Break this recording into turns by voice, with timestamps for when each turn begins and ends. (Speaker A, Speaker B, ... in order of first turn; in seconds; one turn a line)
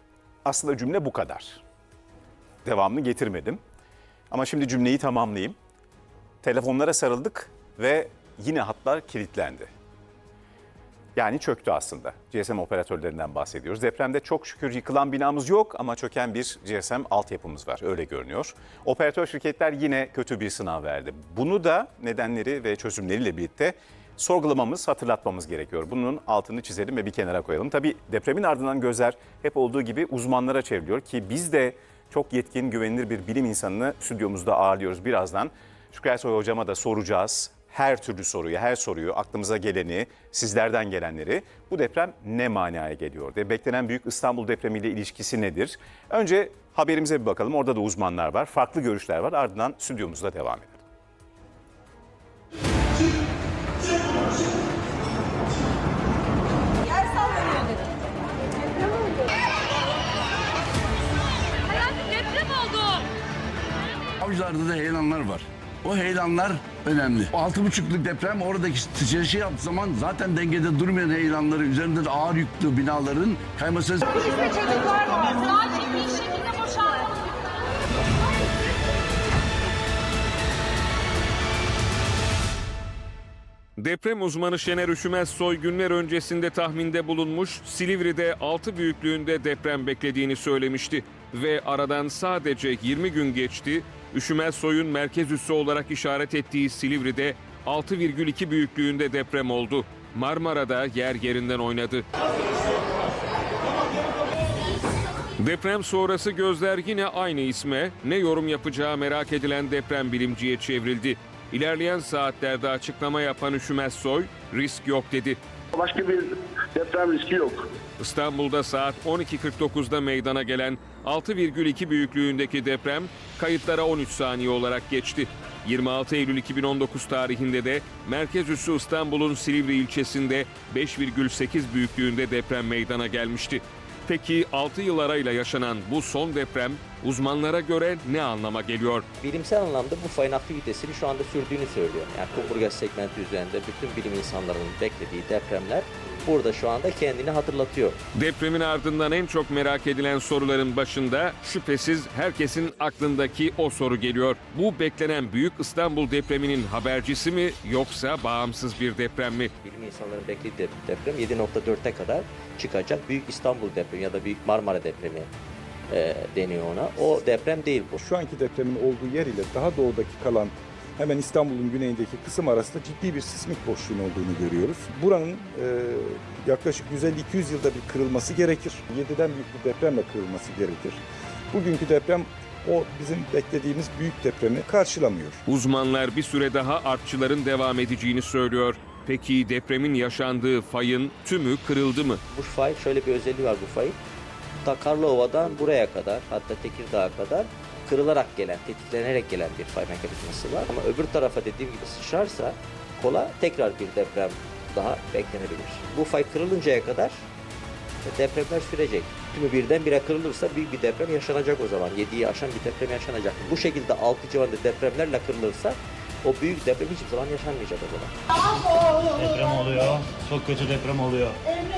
Speaker A: 0.4-1.6
Speaker A: 2.6-3.6
Speaker A: 4.3-5.5
Speaker A: 6.4-9.7
Speaker A: 11.2-50.8
Speaker B: 64.2-75.0
Speaker C: 83.8-102.0
Speaker C: 105.4-115.4
Speaker D: 115.7-117.7
Speaker C: 118.0-139.1
Speaker E: 139.2-148.0
Speaker C: 148.1-159.5
Speaker E: 159.6-165.3
Speaker E: 165.9-168.0
Speaker F: 168.0-181.0
Speaker F: 181.5-185.4
Speaker C: 185.4-192.2
Speaker E: 192.3-194.0
Speaker E: 194.6-207.2
Speaker E: 208.0-218.1
Speaker G: 219.1-221.4